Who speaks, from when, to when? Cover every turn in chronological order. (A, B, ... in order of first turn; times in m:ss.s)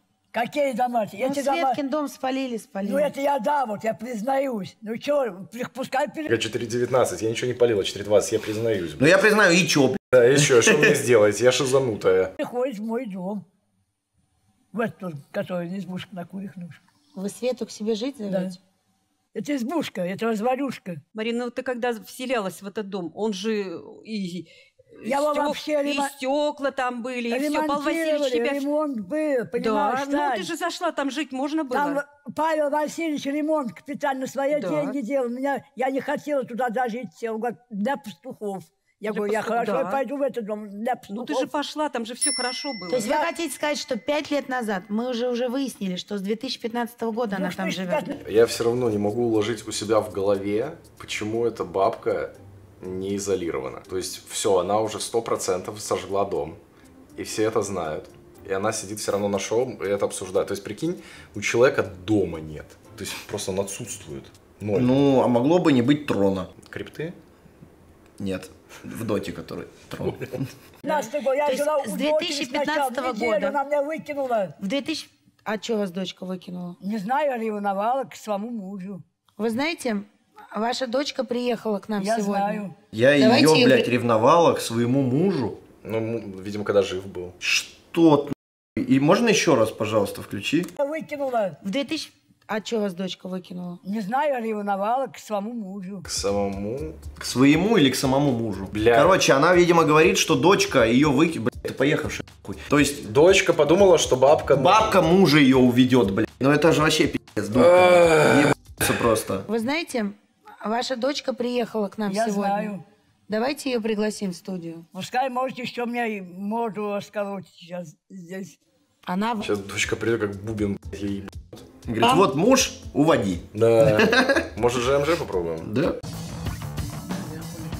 0:00.3-0:01.8 A
0:01.2-0:03.1 B
0:02.8-0:06.3 A
0:06.3-0:09.2 C
0:09.0-0:10.9 D
0:10.1-0:12.3 C
0:12.4-0:13.4 A
0:14.7-0:16.8 A
0:17.1-0:18.6 B
0:18.3-0:18.6 A
0:19.3-0:21.0 A
0:21.1-0:28.6 E
0:25.0-0:26.1 A
0:27.3-0:30.5 A
0:29.6-0:32.0 E
0:31.7-0:41.5 A
0:34.5-0:35.0 E
0:39.1-0:40.0 E
0:41.1-0:43.2 E
0:42.9-0:48.1 B
0:47.3-0:48.1 A
0:48.2-0:56.6 C
0:57.2-1:04.9 C
1:04.7-1:06.5 D
1:06.7-1:07.1 C
1:08.2-1:10.5 D
1:10.0-1:10.3 C
1:10.8-1:14.5 A
1:10.9-1:13.6 B
1:14.6-1:16.8 B
1:16.8-1:19.0 A
1:19.4-1:22.6 B
1:22.0-1:22.7 A
1:22.9-1:25.6 D
1:23.2-1:23.9 B
1:25.8-1:27.4 C
1:27.4-1:30.7 D
1:30.8-1:31.6 A
1:31.6-1:33.8 B
1:33.8-1:36.0 A
1:36.1-1:37.0 C
1:37.2-1:43.0 D
1:38.7-1:39.2 C
1:43.0-1:45.0 C
1:44.5-1:49.5 D
1:47.5-1:48.5 C
1:49.5-1:52.8 B
1:52.1-1:52.8 A
1:53.3-1:54.8 B
1:54.9-1:58.6 A
1:59.1-1:59.5 B
1:59.4-2:01.6 C
2:01.8-2:04.5 D
2:03.5-2:05.7 C
2:05.6-2:06.0 D
2:07.2-2:07.4 A